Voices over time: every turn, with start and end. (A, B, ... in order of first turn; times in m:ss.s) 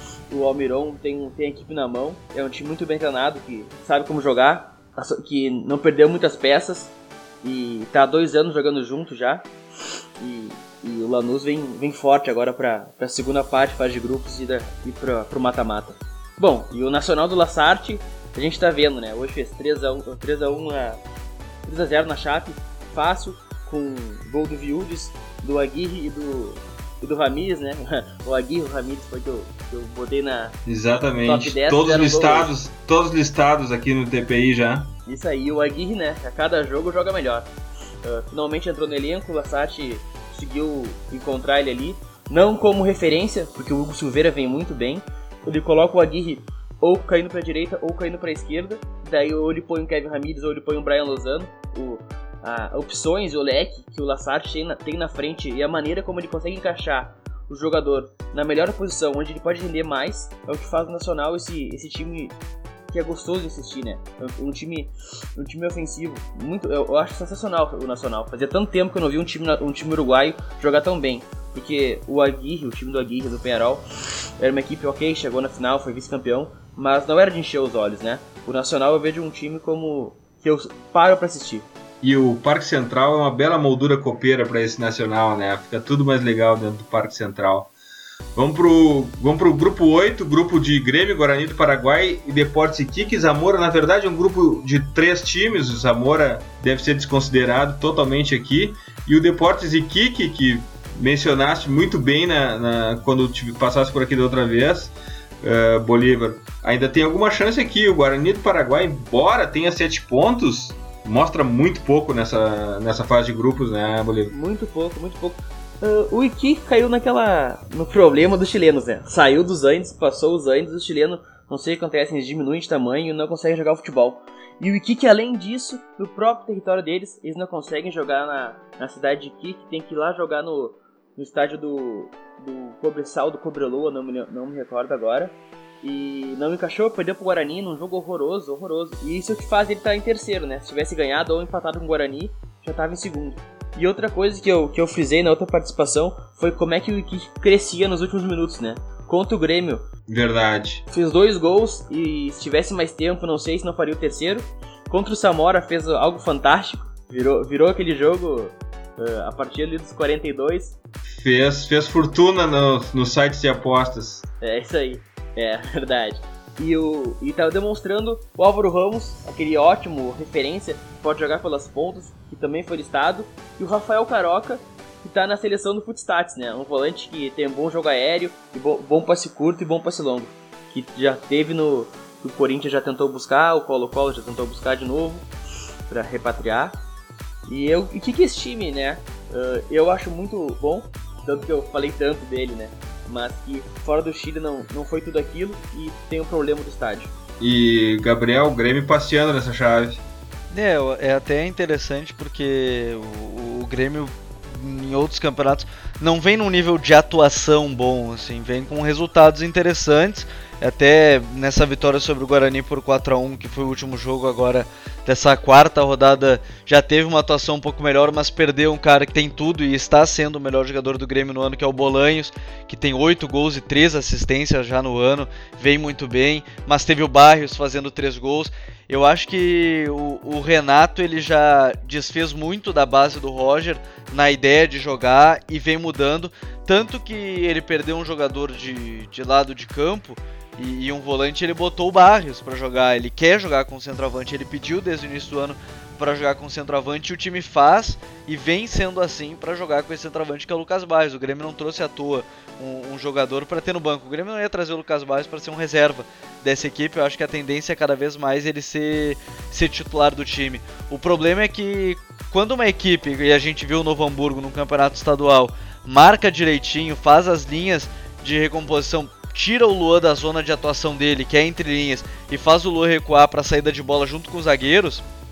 0:00.3-0:09.5 A
0:10.2-0:21.0 A
0:21.6-0:30.5 A
0:30.6-0:34.9 B
0:31.2-0:32.5 A
0:35.1-0:37.5 A
0:38.0-1:02.4 A
1:02.9-1:13.8 A
1:14.4-1:21.7 A
1:22.0-1:27.7 B
1:28.3-1:54.3 B
1:54.3-2:29.8 A
2:30.1-2:30.8 B
2:30.9-2:40.7 A
2:41.1-2:44.3 B
2:44.4-3:05.3 A
3:05.9-3:06.8 A
3:07.5-3:17.1 A
3:17.4-3:20.0 B
3:20.5-4:35.0 C